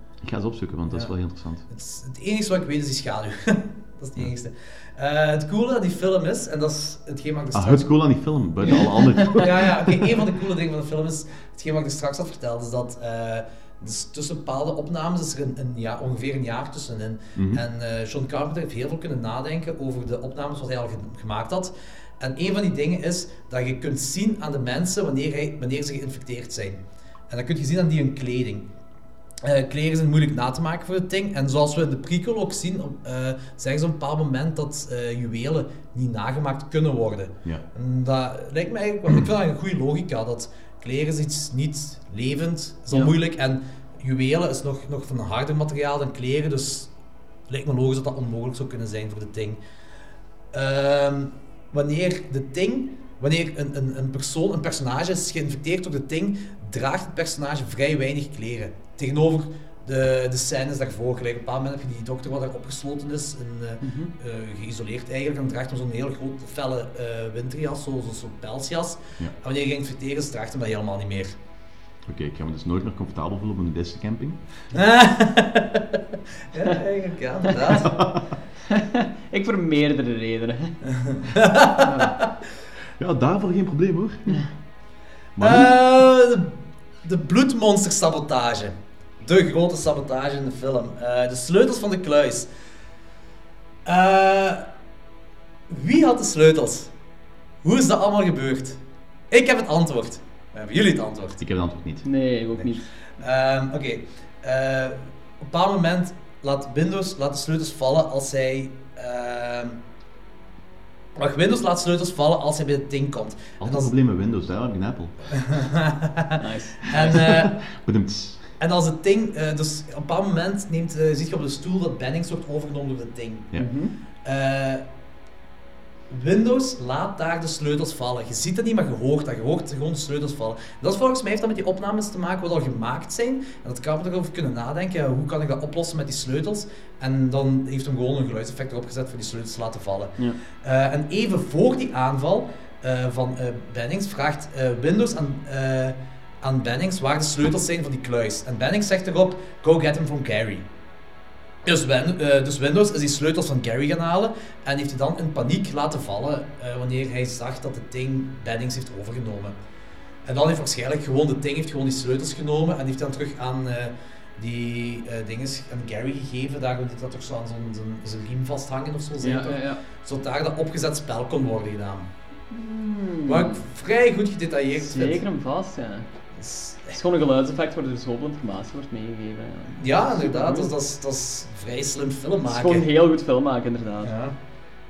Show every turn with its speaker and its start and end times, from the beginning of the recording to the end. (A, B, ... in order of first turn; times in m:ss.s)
0:00.2-0:01.6 A
0:01.7-0:07.9 B
0:07.5-0:10.2 A
0:09.3-0:28.6 B
0:17.4-0:17.6 A
0:29.4-0:46.9 B
0:47.5-0:49.6 B
0:50.5-1:11.3 B
1:03.8-1:04.1 C
1:12.0-1:14.4 A
1:14.7-1:16.0 B
1:16.5-1:18.0 B
1:17.8-1:18.2 A
1:18.7-1:20.7 C
1:20.8-1:22.2 B
1:21.8-1:22.1 C
1:23.0-1:24.4 A
1:25.4-1:25.7 A
1:25.4-1:32.5 B
1:33.8-1:34.7 B
1:35.7-1:36.9 B
1:37.6-1:38.8 B
1:39.3-1:41.4 B
1:41.4-1:42.1 A
1:42.0-1:42.9 C
1:43.2-1:49.8 B
1:51.1-1:53.9 B
1:53.6-1:55.3 A
1:55.3-1:57.5 B
1:56.4-1:57.2 C
1:56.9-1:58.5 A
1:58.6-2:03.5 B
2:03.6-2:03.9 C
2:04.2-2:04.8 B
2:06.1-2:30.6 B
2:31.6-2:39.5 B
2:40.2-2:52.1 B
2:49.2-2:49.8 C
2:52.5-2:53.6 C
2:53.3-2:55.2 B
2:54.8-2:56.1 C
2:56.4-2:57.0 B
2:56.9-3:00.7 C
2:59.7-3:02.8 B
3:02.5-3:04.1 C
3:04.0-3:04.3 B